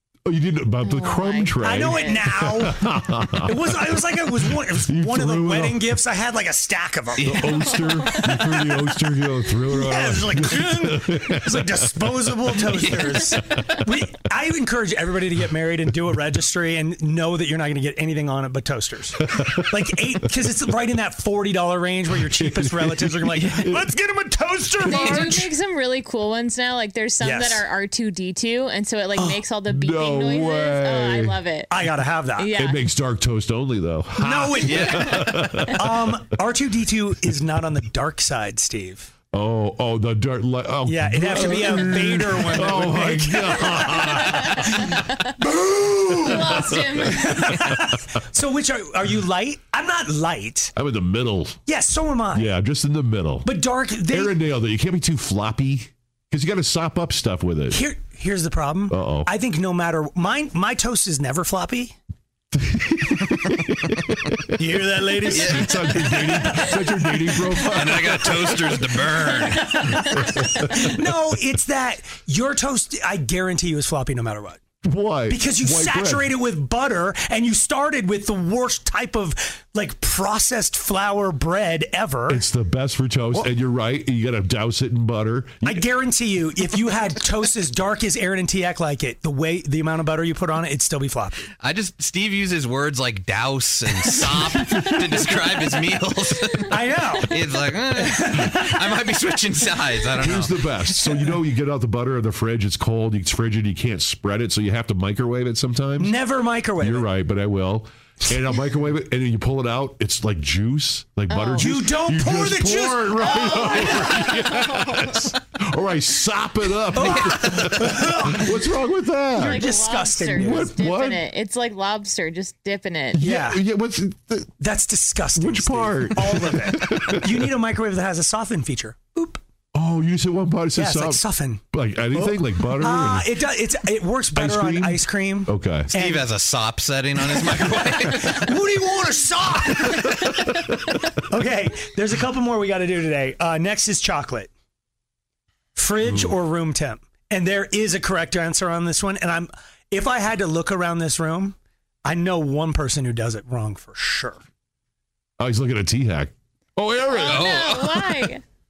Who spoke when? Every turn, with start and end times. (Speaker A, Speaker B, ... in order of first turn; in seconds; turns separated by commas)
Speaker A: 0.2-3.9, Speaker B: 0.8-2.4, Speaker C: 1.6-8.7, Speaker A: 4.7-6.0, Speaker D: 7.2-7.5, Speaker A: 7.2-13.8, Speaker B: 7.8-8.5, Speaker C: 9.7-25.5, Speaker A: 22.4-23.9, Speaker B: 24.8-31.8, Speaker C: 27.2-27.6, Speaker A: 29.6-31.4, Speaker C: 31.7-32.5, Speaker B: 32.4-32.8, Speaker A: 32.5-36.2, Speaker C: 34.2-35.1, Speaker D: 34.6-35.1, Speaker C: 35.7-39.1, Speaker A: 39.3-44.8, Speaker C: 40.8-44.0, Speaker B: 43.5-45.2, Speaker C: 45.4-46.3, Speaker A: 46.1-48.2, Speaker B: 46.2-47.6, Speaker C: 47.1-50.7, Speaker A: 50.8-51.6, Speaker C: 51.7-52.5, Speaker A: 52.3-53.5, Speaker C: 53.4-54.3, Speaker A: 54.1-57.8, Speaker C: 57.7-62.0, Speaker A: 58.9-59.3, Speaker A: 62.5-68.7, Speaker C: 64.6-74.6, Speaker D: 65.3-66.1, Speaker D: 67.7-70.0, Speaker A: 70.0-70.9, Speaker A: 74.8-76.3, Speaker C: 75.3-82.4, Speaker A: 82.3-85.8, Speaker C: 85.6-91.5, Speaker D: 91.6-100.6, Speaker C: 96.7-97.3, Speaker C: 97.9-99.2, Speaker A: 100.2-106.1, Speaker C: 106.0-107.1, Speaker A: 106.8-119.7, Speaker B: 111.3-111.9, Speaker C: 111.6-113.2, Speaker B: 113.2-115.3, Speaker C: 116.9-118.5, Speaker B: 119.3-123.3, Speaker C: 119.4-120.7, Speaker A: 120.3-121.2, Speaker A: 123.1-124.5, Speaker C: 123.2-123.6, Speaker C: 124.6-129.4, Speaker A: 125.3-127.5, Speaker A: 129.7-133.3, Speaker C: 130.7-136.3, Speaker A: 134.3-135.9, Speaker D: 135.9-138.6, Speaker C: 137.2-140.3, Speaker C: 141.3-144.5, Speaker C: 145.7-154.4, Speaker A: 146.0-146.3, Speaker A: 155.4-157.3, Speaker B: 157.1-158.4, Speaker D: 157.2-158.3